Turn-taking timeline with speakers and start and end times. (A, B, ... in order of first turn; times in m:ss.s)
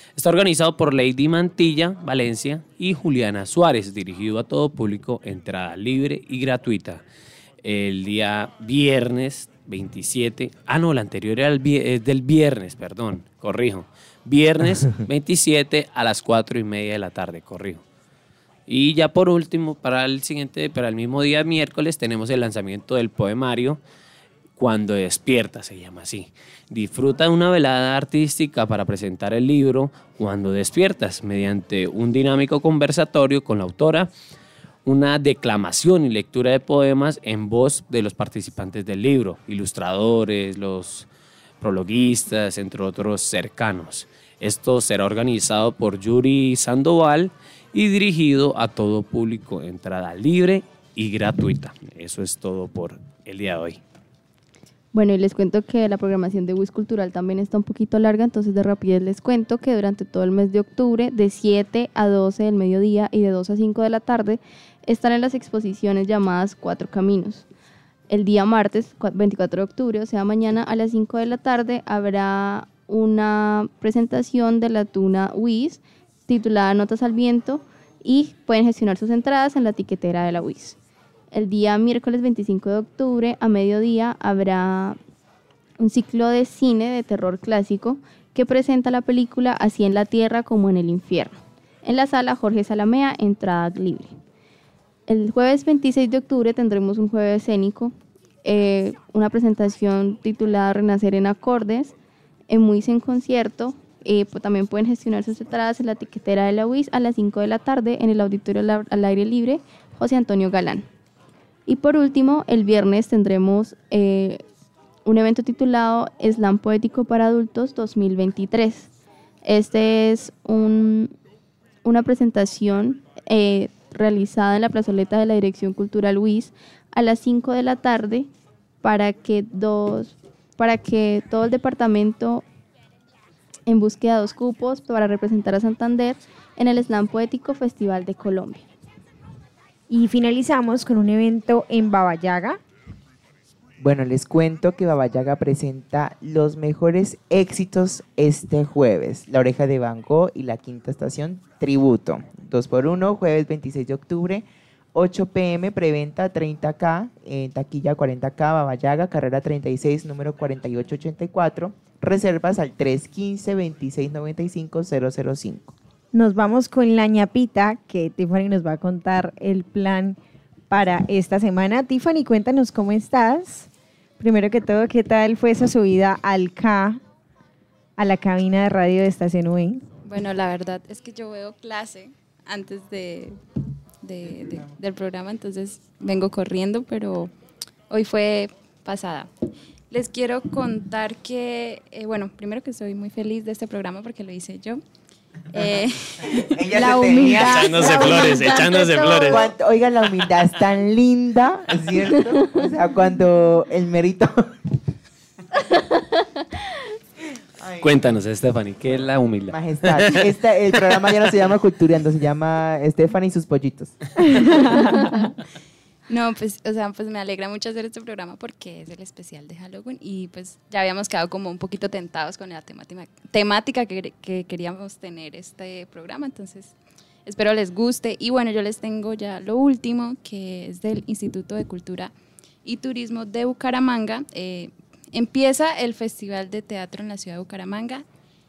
0:00.2-0:07.0 A
0:07.6-0:17.8 A
0:18.7-0:23.8 A
0:24.6-0:34.1 A
0:34.9-0:41.1 A
0:41.6-0:53.8 A
0:54.9-1:07.5 B
1:08.1-1:20.8 B
1:21.3-1:25.0 B
1:25.8-1:34.2 B
1:35.1-1:41.9 B
1:42.5-1:50.9 B
1:51.7-1:54.4 B
1:55.1-1:58.9 B
1:59.4-2:01.2 B
2:01.8-2:08.3 B
2:08.8-2:12.4 B
2:13.7-2:18.7 B
2:19.9-2:22.6 C
2:23.8-2:45.7 D
2:46.1-2:50.2 C
2:50.7-2:53.7 C
2:54.2-2:57.0 C
2:58.0-2:59.8 C
3:00.0-3:03.4 E
3:04.0-3:07.3 E
3:04.4-3:04.7 D
3:07.9-3:09.3 E
3:09.9-3:14.8 E
3:15.5-3:16.5 E
3:15.6-3:18.4 D
3:17.0-3:19.4 B
3:17.3-3:19.5 A
3:19.3-3:24.5 D
3:27.6-3:28.2 D
3:27.8-3:30.3 A
3:29.5-3:35.1 D
3:31.0-3:31.3 A
3:34.4-3:34.9 C
3:36.1-3:46.7 E
3:47.3-3:52.1 E
3:52.6-3:58.0 E